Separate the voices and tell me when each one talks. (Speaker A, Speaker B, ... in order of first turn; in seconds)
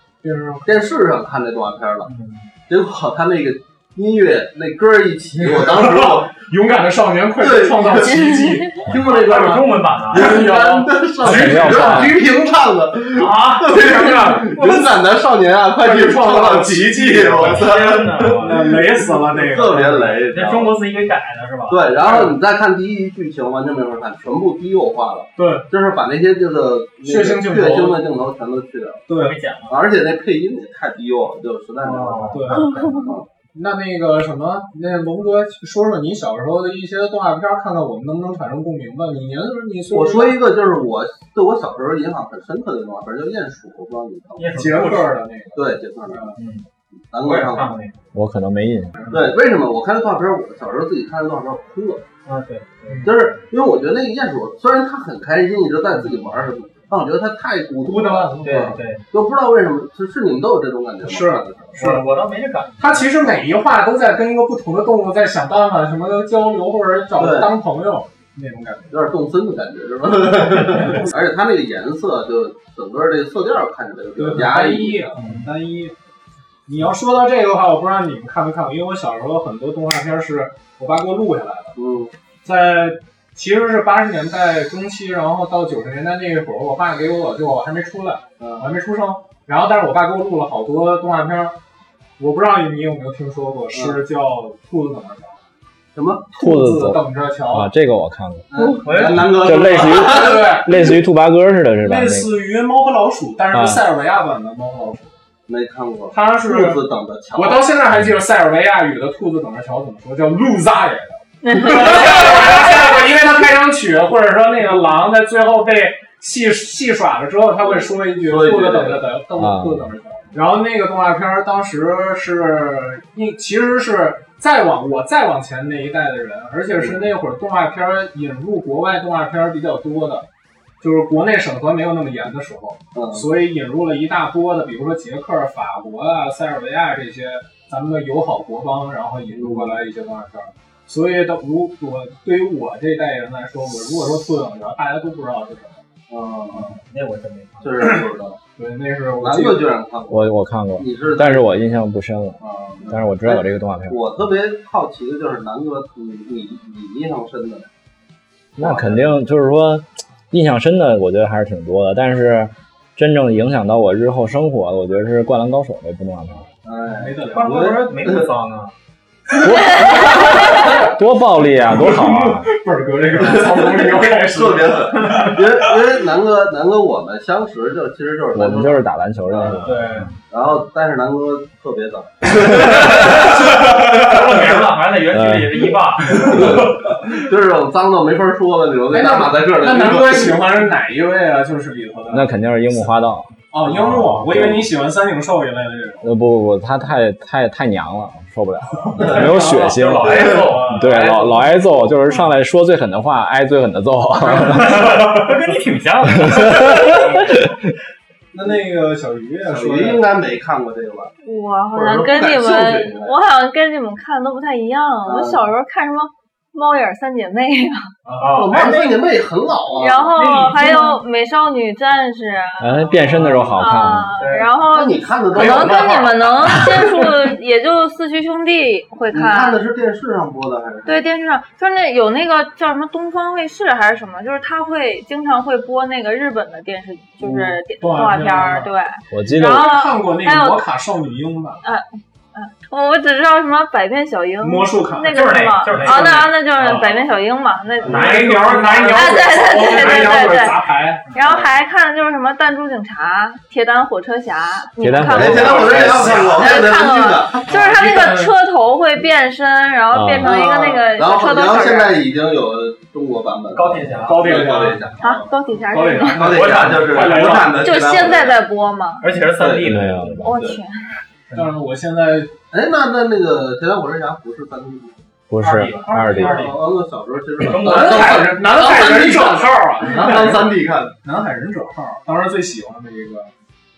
Speaker A: 0.2-0.9, 5.4-12.1, 13.6-14.8, 15.8-17.8, 18.4-20.2, 22.0-22.4, 25.4-25.7, 27.0-28.0, 29.1-29.4, 32.3-40.4, 44.5-46.4, 49.0-49.3, 57.8-58.8, 61.0-62.0, 62.8-69.0, 74.2-76.0, 76.7-81.7, 82.4-91.6, 92.2-95.4, 96.4-97.7, 100.0-100.9, 101.8-105.1, 106.1-130.3, 130.8-145.8, 148.6-149.7, 166.9-167.6, 169.4-170.9, 171.4-175.7, 183.6-183.9, 188.9-192.3, 193.5-196.1, 198.8-199.8, 206.6-207.3, 208.3-210.1, 218.0-218.4, 225.3-226.5, 237.2-238.7, 239.4-241.6, 244.4-247.0, 247.8-251.2, 257.5-258.3, 264.0-265.0, 265.6-267.6, 271.3-272.3, 277.6-283.3
Speaker B: 0.6-2.1, 2.7-6.4, 7.3-8.3, 8.8-20.8, 21.7-29.1, 29.7-33.3, 39.9-44.5, 45.5-46.3, 47.1-47.7, 49.1-52.0, 53.0-61.8, 67.2-67.5, 68.9-75.1, 81.7-82.1, 88.4-88.7, 93.7-94.0, 95.9-96.4, 98.5-100.5, 105.5-107.7, 117.6-119.1, 132.9-133.3, 139.3-139.8, 146.1-146.7, 147.6-148.4, 149.1-151.5, 152.4-157.7, 158.6-159.1, 166.6-168.3, 169.6-170.4, 173.1-179.8, 180.3-184.4, 186.2-190.6, 200.1-201.2, 209.4-211.1, 211.7-213.2, 215.1-215.4, 218.3-220.1, 223.1-223.6, 224.7-226.7, 229.1-231.0, 251.2-251.5, 255.1-257.5, 260.2-265.3, 266.1-268.4, 269.2-270.6, 272.5-275.0, 276.0-280.9
Speaker C: 2.0-2.5, 8.8-10.4, 13.1-13.8, 17.2-18.7, 20.3-21.9, 29.1-29.8, 31.8-32.8, 44.4-45.1, 46.4-46.6, 47.2-47.9, 52.2-53.1, 58.4-59.0, 61.7-63.1, 75.2-75.4, 98.8-100.0, 146.5-147.9, 167.3-168.7, 179.6-180.1, 183.2-186.8, 199.0-201.3, 204.3-207.2, 218.2-219.0, 220.1-221.0, 224.2-224.5, 245.1-246.4, 247.8-250.1, 255.4-256.4, 263.5-264.5, 266.1-267.9, 269.0-270.3, 275.4-276.6, 277.4-278.2
Speaker D: 8.0-8.7, 211.2-217.9, 219.8-223.0, 223.5-229.6, 230.8-240.6, 241.6-248.3, 248.8-250.6, 251.1-262.0, 265.0-266.3, 267.5-269.0, 270.2-270.9
Speaker E: 11.2-12.2, 48.1-49.0, 96.4-98.5, 99.0-102.3, 103.5-103.8, 119.3-119.8, 150.1-154.0, 158.6-166.5, 169.4-172.5, 178.3-180.1, 185.1-185.6, 186.2-186.7, 192.1-194.7, 196.0-205.0, 206.2-207.0, 222.6-224.1, 239.1-239.7, 254.8-256.3, 259.9-260.3, 269.6-270.4, 275.3-276.5